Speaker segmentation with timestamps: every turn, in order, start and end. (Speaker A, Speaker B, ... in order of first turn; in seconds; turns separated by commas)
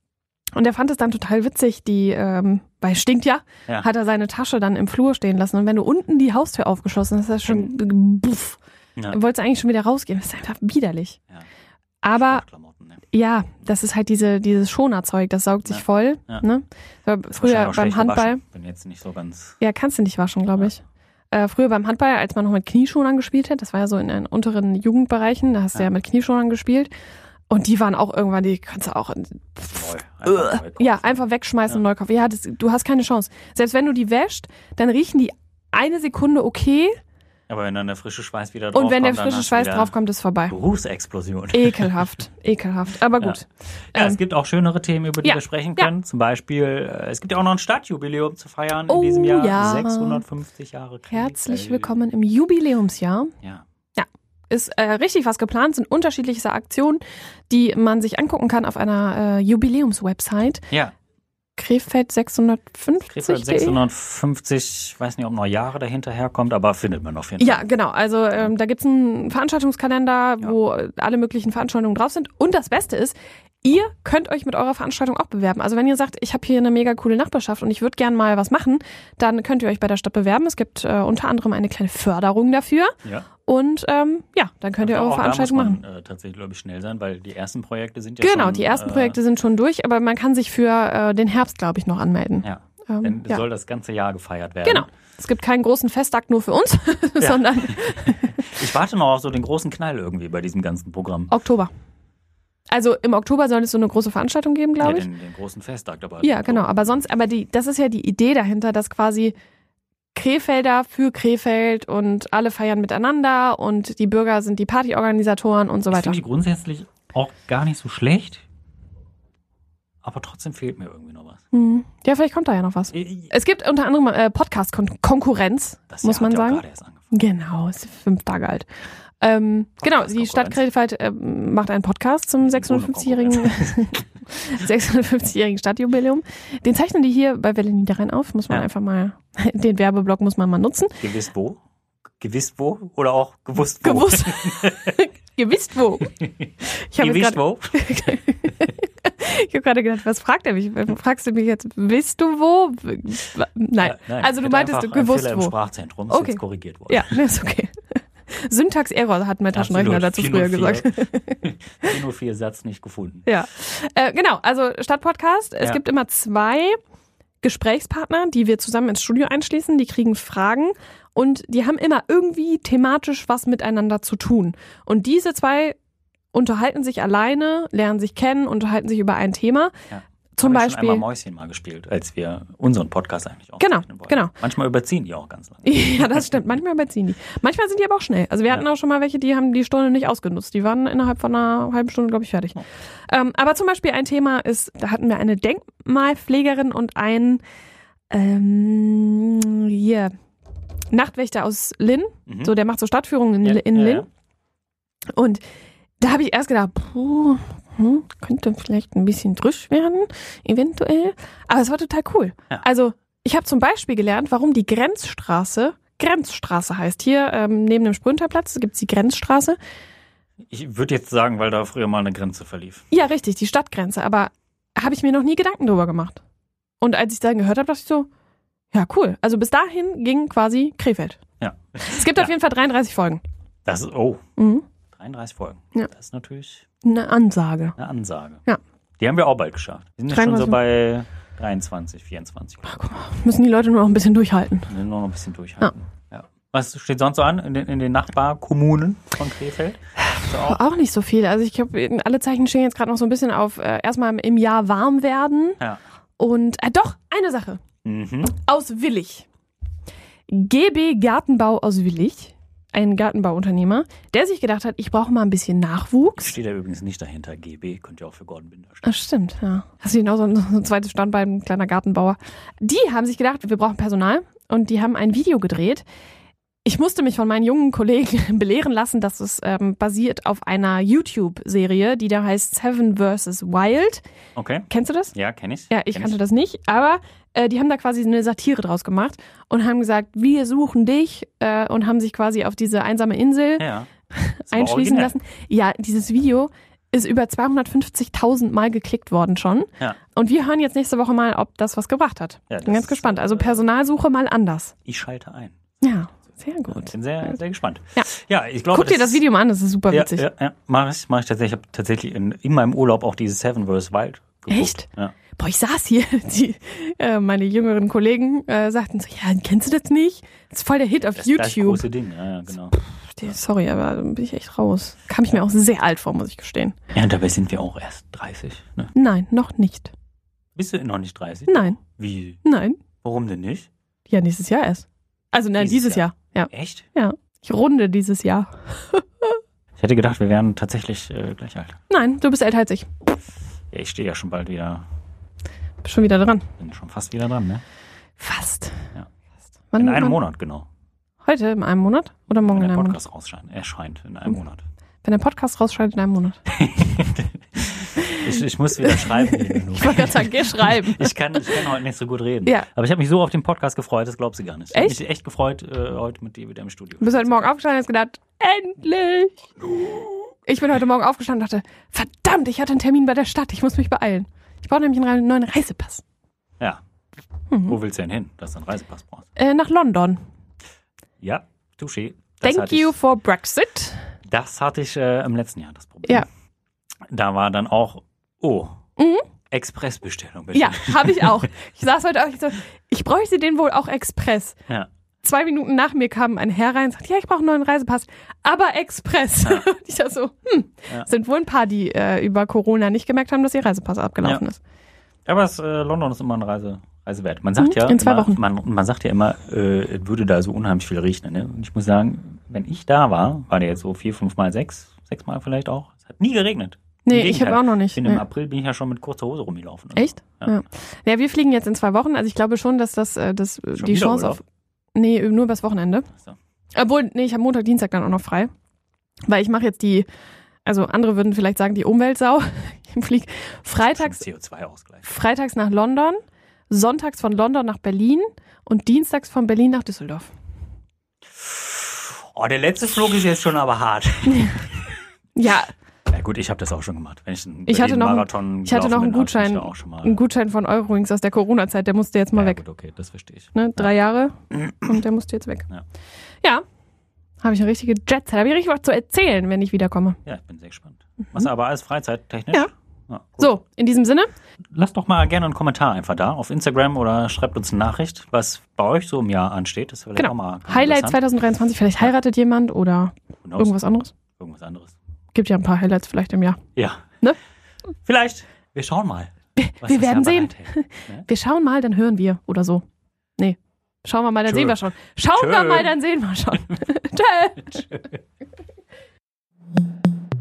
Speaker A: 0.5-11.2, Speaker B: 7.4-7.7, Speaker A: 12.0-12.4, Speaker B: 12.1-13.0, Speaker A: 13.1-18.4, Speaker B: 15.7-16.4, Speaker B: 17.3-19.6, Speaker A: 19.6-26.9, Speaker A: 27.5-37.0, Speaker B: 29.7-31.8, Speaker B: 37.5-40.0, Speaker A: 38.7-40.6, Speaker B: 40.5-42.1, Speaker A: 41.5-44.2, Speaker B: 43.9-52.0, Speaker A: 45.2-45.9, Speaker A: 48.9-50.2, Speaker A: 51.1-53.3, Speaker A: 54.0-60.6, Speaker A: 61.5-63.8, Speaker B: 63.1-67.7, Speaker A: 67.4-85.8, Speaker B: 84.8-89.2, Speaker A: 88.2-93.4, Speaker B: 92.4-94.9, Speaker A: 94.6-98.5, Speaker B: 97.2-101.3, Speaker A: 101.3-101.7, Speaker A: 102.7-105.1, Speaker B: 104.8-107.0, Speaker A: 106.2-109.3, Speaker A: 110.1-116.2, Speaker B: 115.9-118.4, Speaker B: 120.0-121.4, Speaker A: 121.5-128.7, Speaker B: 122.9-123.3, Speaker B: 125.9-127.1, Speaker A: 129.2-141.0, Speaker B: 129.8-130.6, Speaker B: 132.4-133.9, Speaker B: 141.0-141.6, Speaker B: 142.2-145.0, Speaker A: 143.8-155.6, Speaker B: 146.9-148.2, Speaker B: 153.8-157.2, Speaker A: 156.1-161.5, Speaker B: 159.5-163.3, Speaker A: 163.2-166.8, Speaker A: 167.4-175.8, Speaker A: 176.3-179.7, Speaker B: 179.9-186.4, Speaker A: 180.4-181.0, Speaker A: 183.6-184.3, Speaker A: 185.6-197.4, Speaker A: 198.1-200.1, Speaker A: 200.9-204.1, Speaker B: 202.3-202.5, Speaker B: 203.4-204.1, Speaker A: 205.1-205.4, Speaker A: 206.0-219.6, Speaker B: 220.5-222.8, Speaker A: 222.9-226.2, Speaker A: 226.8-228.1, Speaker A: 228.7-231.2, Speaker B: 231.4-232.3, Speaker A: 231.8-233.2, Speaker B: 233.7-234.2, Speaker A: 234.4-234.7, Speaker B: 234.9-236.6, Speaker A: 236.8-237.8, Speaker B: 237.8-238.4, Speaker B: 239.0-242.8, Speaker A: 240.1-240.6, Speaker A: 242.7-244.7, Speaker B: 244.7-250.6, Speaker A: 250.0-255.6, Speaker A: 256.2-257.6, Speaker B: 257.8-258.3, Speaker A: 258.3-259.3, Speaker A: 260.3-266.3, Speaker B: 266.2-268.9, Speaker A: 268.8-275.8, Speaker A: 276.6-284.0, Speaker B: 284.3-286.2, Speaker A: 284.7-285.1, Speaker A: 285.7-304.7, Speaker B: 293.6-293.9, Speaker B: 294.5-295.1, Speaker B: 302.5-303.6, Speaker B: 304.9-305.5, Speaker A: 305.8-307.3, Speaker B: 306.7-309.2, Speaker A: 308.7-310.3, Speaker B: 309.9-315.1, Speaker A: 314.5-321.9, Speaker B: 321.0-323.3, Speaker A: 322.8-326.8, Speaker B: 326.9-328.9, Speaker A: 328.9-329.9, Speaker B: 330.5-332.4, Speaker A: 331.5-331.8, Speaker A: 332.4-332.8, Speaker B: 333.0-333.7, Speaker A: 334.1-339.4, Speaker B: 335.6-336.9, Speaker B: 339.8-341.8, Speaker A: 341.9-342.9, Speaker B: 343.7-344.8, Speaker A: 345.8-346.4, Speaker B: 346.6-347.6, Speaker A: 348.2-348.8, Speaker A: 349.7-350.2, Speaker B: 349.8-350.7, Speaker A: 351.2-353.0, Speaker B: 352.5-354.6, Speaker A: 355.0-356.4, Speaker B: 356.5-367.5, Speaker A: 358.0-361.1, Speaker A: 364.7-365.0, Speaker A: 367.0-369.5, Speaker A: 370.4-376.0, Speaker A: 377.5-377.8, Speaker B: 377.6-379.3, Speaker A: 379.4-380.2, Speaker B: 381.2-383.0, Speaker A: 382.4-384.0, Speaker B: 384.3-386.2, Speaker B: 387.1-388.8, Speaker A: 389.0-389.2, Speaker B: 389.5-391.5, Speaker A: 390.5-394.6, Speaker A: 395.2-404.6, Speaker B: 399.4-399.7, Speaker B: 405.2-420.6, Speaker A: 407.6-408.4, Speaker A: 417.0-418.2, Speaker A: 419.9-424.4, Speaker B: 423.8-424.4, Speaker A: 424.9-426.1, Speaker A: 426.7-428.5, Speaker A: 429.3-430.1, Speaker A: 430.6-434.2, Speaker B: 433.8-435.1, Speaker A: 435.0-436.2, Speaker A: 436.7-440.3, Speaker B: 441.4-445.0, Speaker A: 445.4-445.7, Speaker B: 446.1-450.2, Speaker A: 447.7-452.6, Speaker B: 452.3-453.9, Speaker A: 453.5-455.7, Speaker A: 457.4-460.2, Speaker B: 460.2-463.5, Speaker A: 463.4-464.3, Speaker B: 464.7-471.2, Speaker A: 470.1-474.1, Speaker B: 473.4-473.8, Speaker B: 474.4-474.9, Speaker A: 475.3-476.6, Speaker B: 476.8-477.1, Speaker B: 478.0-481.2, Speaker A: 479.6-482.8, Speaker A: 483.4-487.9, Speaker B: 484.5-485.9